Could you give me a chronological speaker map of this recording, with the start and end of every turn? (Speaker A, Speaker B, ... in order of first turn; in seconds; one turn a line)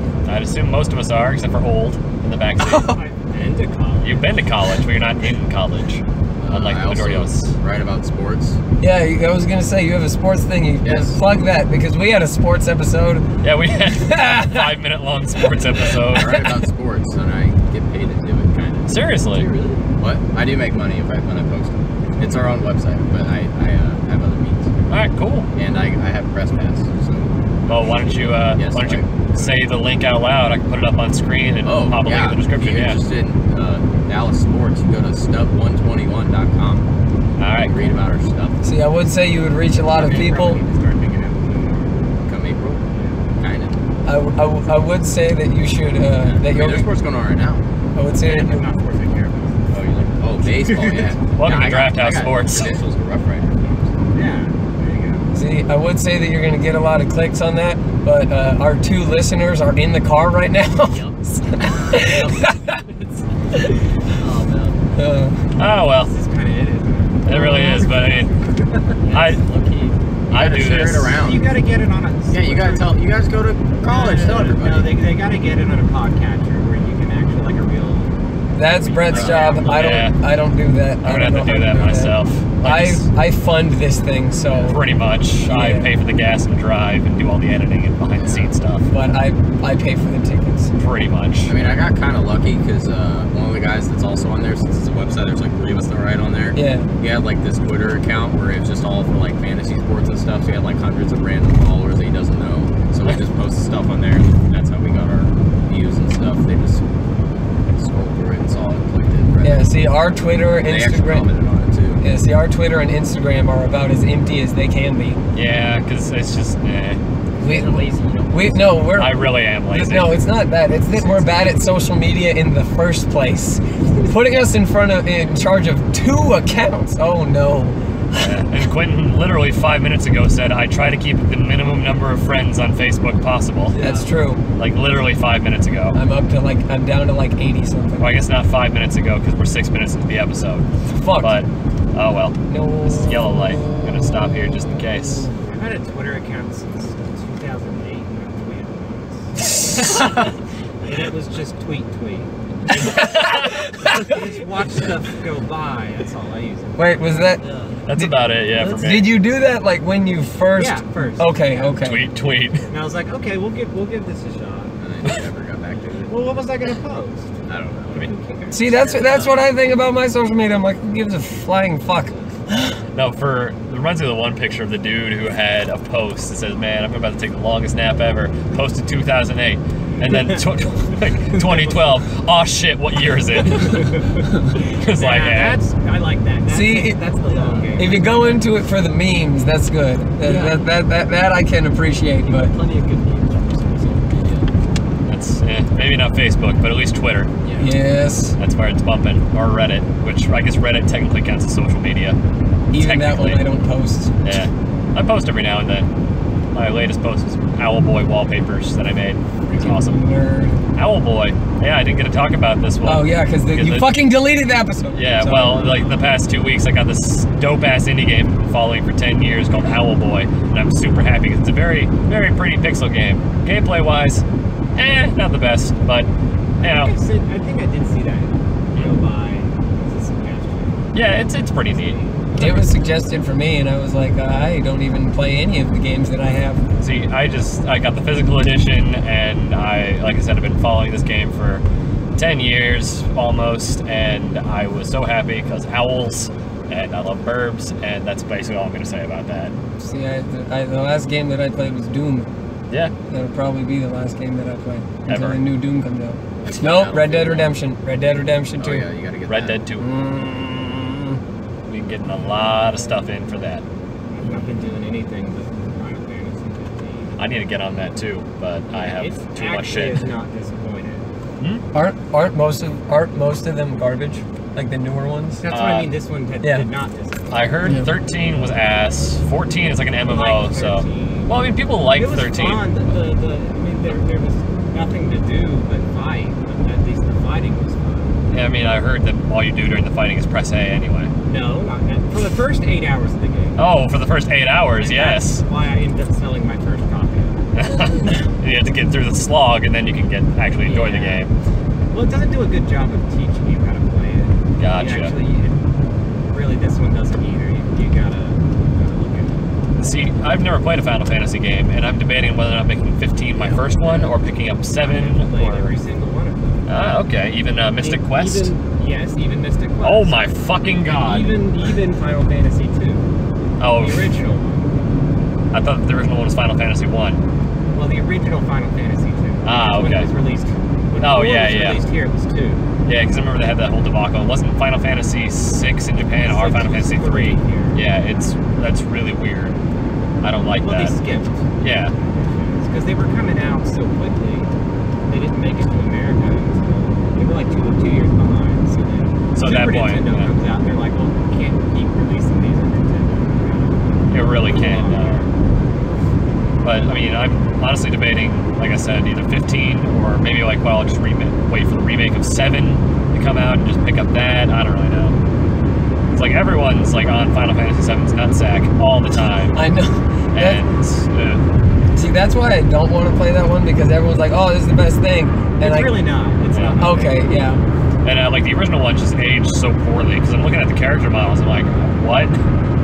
Speaker A: 0.2-2.9
Speaker B: 2.7-4.3
Speaker A: 4.0-7.5
Speaker C: 6.4-8.6
Speaker D: 8.8-13.2
Speaker C: 10.8-11.2
Speaker A: 13.4-16.5
Speaker D: 13.9-14.7
Speaker C: 15.9-18.9
Speaker A: 18.9-19.5
Speaker E: 19.3-19.8
Speaker C: 20.0-24.7
Speaker A: 24.9-25.5
Speaker C: 25.5-29.6
Speaker A: 27.7-33.0
Speaker C: 31.6-36.9
Speaker A: 37.4-37.8
Speaker C: 37.6-38.6
Speaker D: 38.6-40.6
Speaker B: 39.8-42.0
Speaker C: 42.2-42.8
Speaker B: 42.9-43.2
Speaker C: 43.4-43.7
Speaker D: 44.0-46.9
Speaker C: 46.2-47.6
Speaker D: 47.9-48.7
Speaker B: 48.2-49.7
Speaker C: 49.7-54.0
Speaker B: 50.4-51.1
Speaker A: 51.3-52.8
Speaker B: 54.1-55.3
Speaker D: 55.3-62.8
Speaker E: 60.9-63.3
Speaker E: 64.1-64.8
Speaker D: 65.0-65.5
Speaker A: 65.5-66.1
Speaker B: 65.8-69.0
Speaker A: 67.2-68.3
Speaker D: 67.3-67.9
Speaker E: 69.0-70.0
Speaker A: 69.1-69.4
Speaker A: 70.3-71.1
Speaker C: 70.3-71.6
Speaker B: 71.1-73.0
Speaker C: 72.3-74.9
Speaker B: 73.8-78.1
Speaker D: 78.5-84.8
Speaker B: 78.6-80.1
Speaker C: 79.1-79.6
Speaker A: 79.6-80.1
Speaker A: 81.0-83.1
Speaker A: 84.6-88.9
Speaker D: 85.5-85.9
Speaker C: 88.2-88.5
Speaker D: 88.9-90.7
Speaker A: 90.8-91.8
Speaker C: 91.5-109.8
Speaker D: 96.5-96.9
Speaker D: 109.4-111.3
Speaker C: 110.5-112.0
Speaker D: 112.0-115.2
Speaker A: 115.3-117.0
Speaker E: 117.4-118.8
Speaker D: 117.4-128.3
Speaker A: 118.9-120.2
Speaker A: 128.1-133.7
Speaker E: 133.7-134.1
Speaker D: 133.8-134.4
Speaker A: 134.6-136.0
Speaker D: 135.9-138.2
Speaker A: 138.0-145.3
Speaker D: 140.9-141.4
Speaker D: 142.5-143.4
Speaker B: 145.4-150.1
Speaker B: 150.8-157.3
Speaker D: 156.8-162.1
Speaker E: 157.4-157.8
Speaker A: 157.8-159.1
Speaker B: 160.6-161.8
Speaker A: 161.8-162.7
Speaker B: 162.7-164.7
Speaker C: 164.8-166.3
Speaker B: 166.1-169.3
Speaker C: 167.4-168.1
Speaker D: 168.5-172.8
Speaker C: 168.7-169.3
Speaker A: 172.9-183.9
Speaker B: 180.1-180.4
Speaker B: 181.3-181.8
Speaker B: 183.4-188.4
Speaker A: 184.5-185.6
Speaker D: 186.5-187.0
Speaker E: 187.2-187.8
Speaker D: 187.8-192.5
Speaker E: 190.2-190.6
Speaker E: 192.2-194.5
Speaker A: 195.0-197.3
Speaker E: 197.4-197.7
Speaker D: 197.6-198.4
Speaker A: 198.4-202.2
Speaker D: 202.7-204.1
Speaker A: 202.7-203.4
Speaker A: 204.2-205.9
Speaker A: 206.5-210.0
Speaker D: 209.5-210.6
Speaker A: 210.8-213.9
Speaker D: 212.8-215.8
Speaker A: 214.9-224.2
Speaker A: 224.8-226.1
Speaker B: 226.6-232.7
Speaker A: 226.6-226.9
Speaker A: 230.9-232.0
Speaker D: 232.3-236.6
Speaker A: 236.8-241.6
Speaker A: 242.2-249.5
Speaker D: 249.8-252.3
Speaker D: 253.1-258.9
Speaker A: 255.1-255.4
Speaker C: 256.4-257.5
Speaker C: 258.6-259.6
Speaker A: 259.2-259.9
Speaker D: 259.8-261.2
Speaker A: 261.7-263.6
Speaker B: 264.1-267.5
Speaker A: 267.2-270.1
Speaker B: 268.7-271.1
Speaker D: 271.7-275.4
Speaker B: 275.4-277.8
Speaker A: 275.5-276.0
Speaker D: 276.4-276.7
Speaker A: 277.3-283.0
Speaker D: 277.6-277.9
Speaker B: 280.0-288.2
Speaker A: 288.3-291.1
Speaker B: 291.2-293.6
Speaker A: 293.6-295.4
Speaker B: 294.8-297.4
Speaker A: 297.5-301.3
Speaker B: 300.6-301.2
Speaker B: 301.9-305.6
Speaker A: 304.6-305.1
Speaker B: 306.3-309.4
Speaker A: 309.8-315.7
Speaker C: 313.3-314.1
Speaker B: 314.8-316.7
Speaker A: 316.7-318.5
Speaker E: 317.7-318.6
Speaker B: 318.7-323.1
Speaker A: 319.8-321.4
Speaker A: 323.6-324.1
Speaker B: 323.7-324.8
Speaker A: 325.5-327.2
Speaker B: 327.7-332.7
Speaker A: 329.4-330.1
Speaker A: 331.0-331.8
Speaker A: 332.8-339.6
Speaker B: 336.2-337.8
Speaker A: 340.2-340.9
Speaker B: 340.5-341.5
Speaker A: 341.6-341.9
Speaker B: 342.0-344.5
Speaker B: 345.1-355.3
Speaker A: 349.3-350.3
Speaker A: 354.1-355.2
Speaker A: 356.6-365.2
Speaker A: 366.1-369.6
Speaker D: 369.5-370.6
Speaker A: 370.3-371.4
Speaker D: 371.9-375.9
Speaker B: 375.6-377.6
Speaker A: 376.5-376.9
Speaker D: 376.8-377.6
Speaker A: 378.0-382.4